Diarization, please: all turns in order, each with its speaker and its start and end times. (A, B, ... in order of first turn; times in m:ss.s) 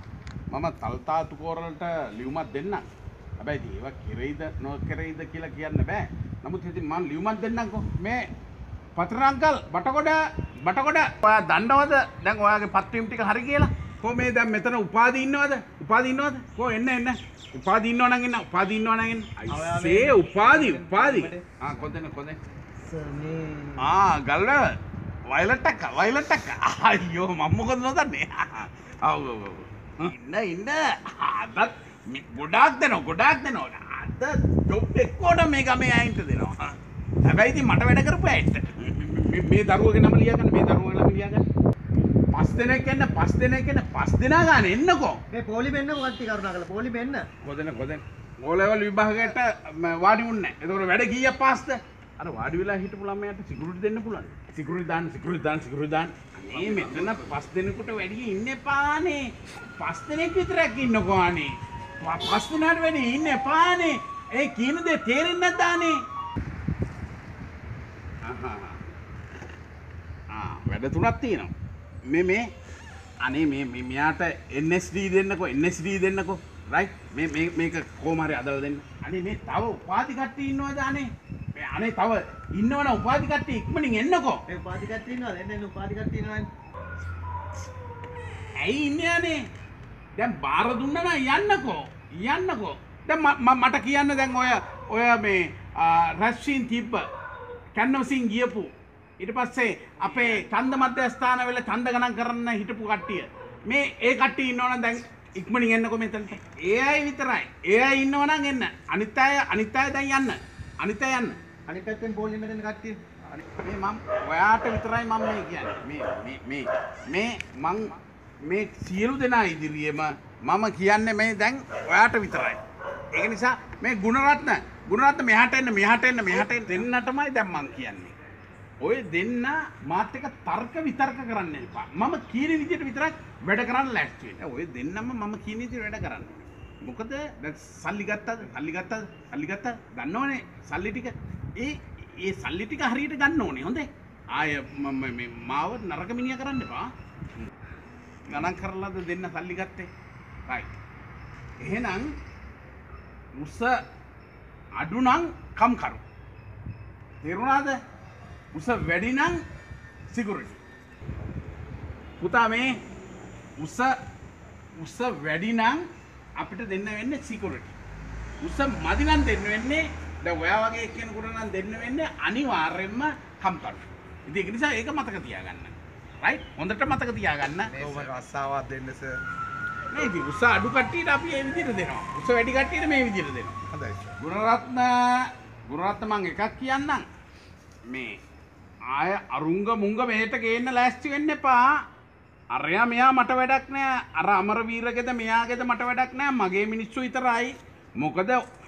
0:00.5-0:02.9 A
0:03.4-0:08.3 A
0:09.0-0:22.4 A
0:19.5-0:21.4 B
0:22.9-0:23.9 B
0:23.8-0:24.8 A
0:25.3-0:41.4 A
0:42.3-0:45.2 A
0:45.3-0:47.3 B
0:47.4-0:59.3 A
0:56.7-0:57.1 C
0:59.8-1:06.0 A
1:08.3-1:08.8 A
1:10.3-1:11.5 A
1:12.1-1:12.5 A
1:13.2-1:24.4 A
1:24.5-1:26.5 B
1:28.6-1:29.4 A
1:30.2-1:37.1 A
1:37.8-1:51.4 A
1:51.7-1:53.0 B
1:53.4-2:02.6 A
2:03.1-2:08.1 A
2:08.8-2:26.9 A
2:28.3-2:29.9 A
2:31.6-2:32.1 A
2:33.4-2:33.8 A
2:34.8-2:36.0 A
2:37.2-2:37.8 A
2:38.5-2:39.4 A
2:40.1-2:40.6 A
2:42.2-2:42.8 A
2:43.6-2:44.0 A
2:44.8-2:45.8 A
2:46.4-2:47.8 A
2:48.4-2:58.1 A
2:57.7-2:59.2 C
2:59.9-3:03.6 A
3:03.7-3:04.1 C
3:04.2-3:07.1 A
3:07.9-3:08.2 A
3:08.9-3:11.8 A
3:12.5-3:18.4 A